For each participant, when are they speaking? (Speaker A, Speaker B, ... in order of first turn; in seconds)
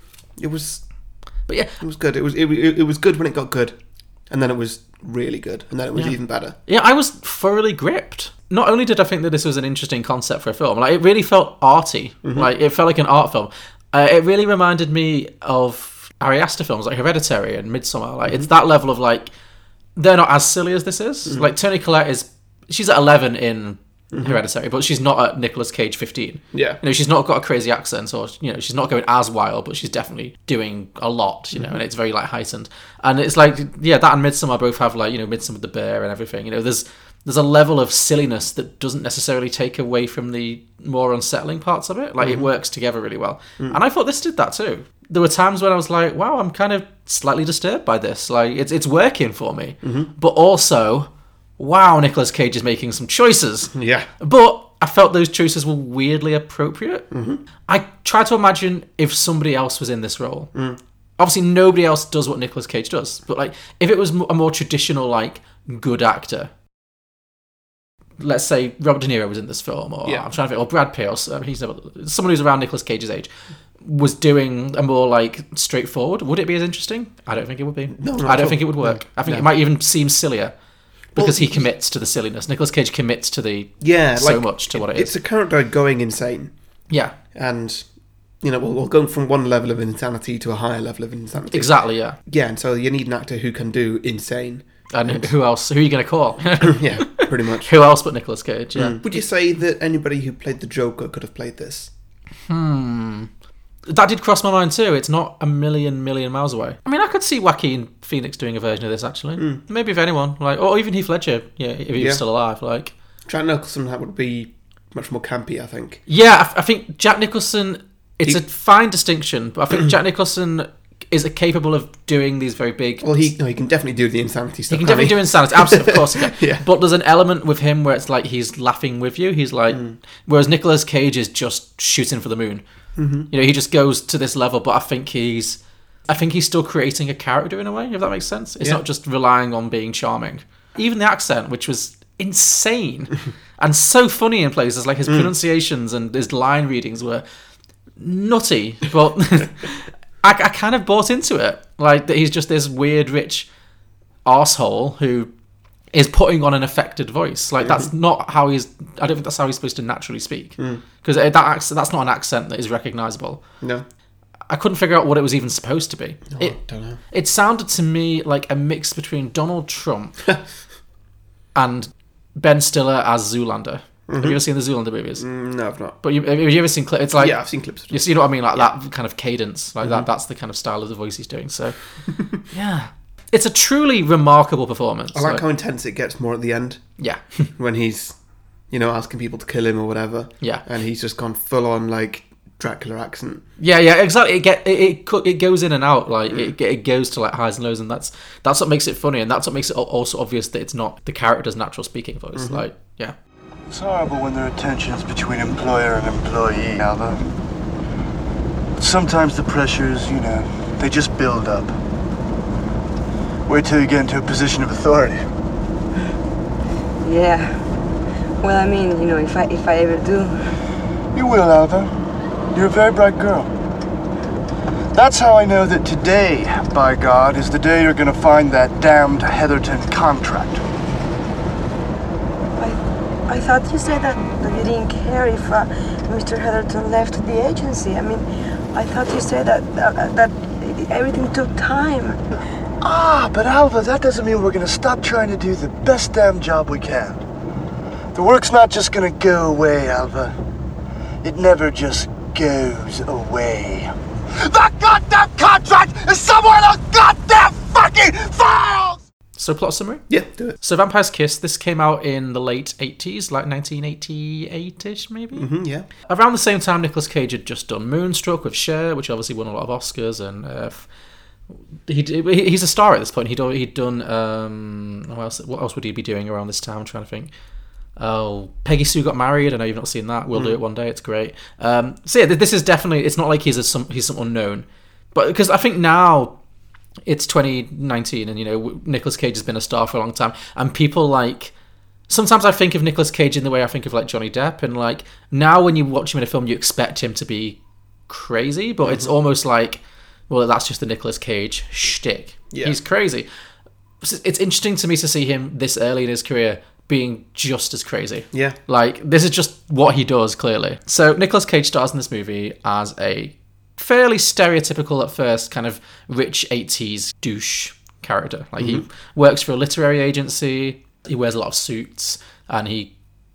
Speaker A: 0.4-0.8, 1.8-3.8, 4.3-6.6, 12.2-12.5, 24.1-24.4, 26.5-26.8, 31.5-31.8, 42.2-42.5, 49.8-50.1, 53.7-54.1, 57.1-57.4, 77.9-79.5, 81.2-81.7, 83.8-86.5, 87.3-87.9, 88.4-91.7, 92.3-95.3, 96.5-97.7, 98.8-101.9, 109.4-109.6, 112.0-112.2, 113.3-116.0, 123.0-126.7, 129.7-130.0, 133.0-133.3, 157.6-157.9, 166.3-167.0, 174.1-174.4, 175.2-176.0, 177.2-178.7, 185.1-186.8, 187.6-188.2, 188.7-193.4, 202.4-202.7, 260.1-260.6, 265.3-265.9, 280.3-280.6, 298.8-299.1, 302.5-302.8, 308.3-308.6, 318.6-318.9
Speaker B: 1.5-1.8, 6.0-19.3, 20.0-57.1, 57.7-60.5, 61.2-66.5, 68.2-73.3, 73.8-80.5, 81.2-85.1, 86.9-87.2, 91.5-92.2, 94.9-99.1, 102.5-103.3, 103.9-112.9, 116.1-123.3, 124.7-132.6, 133.3-147.2, 148.0-153.5, 154.2-155.3, 155.9-163.4, 164.5-166.6, 167.1-170.2, 171.6-175.2, 176.0-181.8, 182.5-185.4, 193.6-203.2, 259.4-260.1, 260.6-265.5, 266.1-270.9, 271.9-277.3, 278.0-286.4, 287.1-291.5, 292.1-303.3, 304.0-322.9
Speaker C: 203.7-207.3, 208.8-211.8, 213.5-215.3, 221.2-221.9, 222.5-223.5, 224.9-230.6, 242.8-247.2, 248.1-250.3, 251.2-259.0
Speaker D: 217.0-217.6, 218.4-220.4, 232.6-242.2